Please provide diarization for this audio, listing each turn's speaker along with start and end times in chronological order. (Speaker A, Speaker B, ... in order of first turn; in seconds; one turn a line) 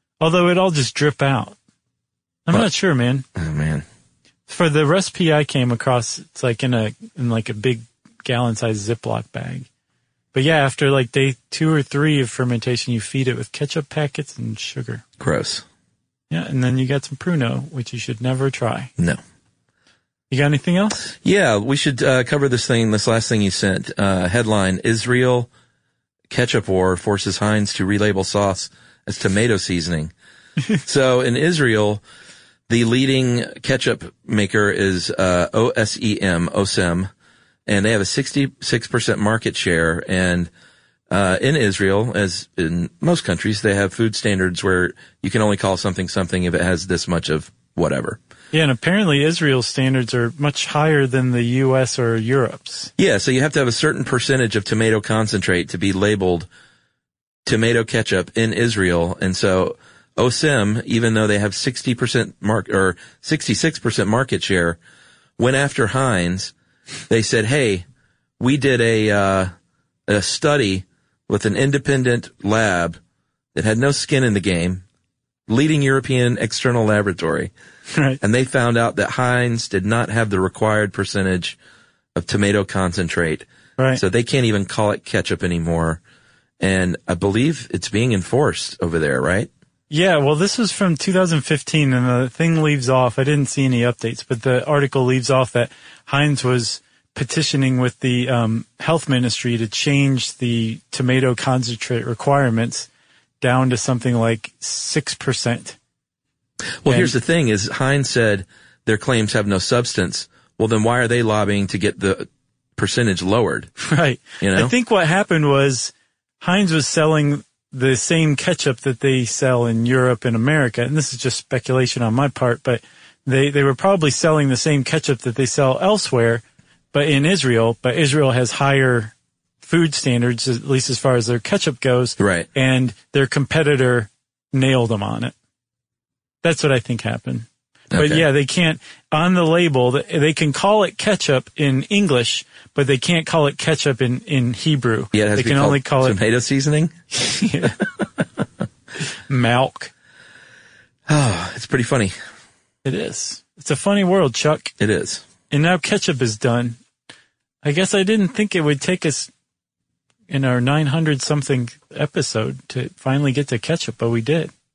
Speaker A: 0.2-1.6
Speaker A: 2.5-3.2
Speaker B: 3.4-3.8
Speaker A: 4.5-9.7
Speaker A: 10.3-15.0
Speaker B: 15.2-15.6
Speaker A: 16.3-18.9
Speaker A: 20.3-21.1
Speaker B: 21.2-25.5
Speaker B: 26.3-30.1
Speaker B: 30.8-32.0
Speaker B: 32.7-37.1
Speaker B: 37.7-40.5
Speaker B: 41.1-48.2
Speaker A: 48.5-52.9
Speaker B: 53.0-56.5
Speaker B: 57.5-64.8
Speaker B: 65.4-66.5
Speaker B: 67.1-67.8
Speaker B: 68.4-69.5
Speaker B: 70.1-73.0
Speaker B: 73.5-74.8
Speaker B: 75.5-77.5
Speaker A: 77.9-78.2
Speaker B: 78.2-81.5
Speaker B: 82.1-86.0
Speaker B: 86.6-89.5
Speaker A: 89.9-102.9
Speaker A: 103.4-105.8
Speaker B: 106.8-113.7
Speaker A: 106.9-107.1
Speaker A: 113.8-126.4
Speaker B: 114.4-114.7
Speaker A: 126.9-135.3
Speaker B: 132.2-132.5
Speaker A: 136.4-146.2
Speaker B: 137.9-138.2
Speaker B: 145.1-146.9
Speaker A: 147.1-147.8
Speaker A: 149.3-149.9
Speaker B: 151.1-152.1
Speaker A: 152.8-154.7
Speaker B: 154.8-155.2
Speaker A: 155.5-156.8
Speaker A: 157.6-159.3
Speaker A: 160.3-164.5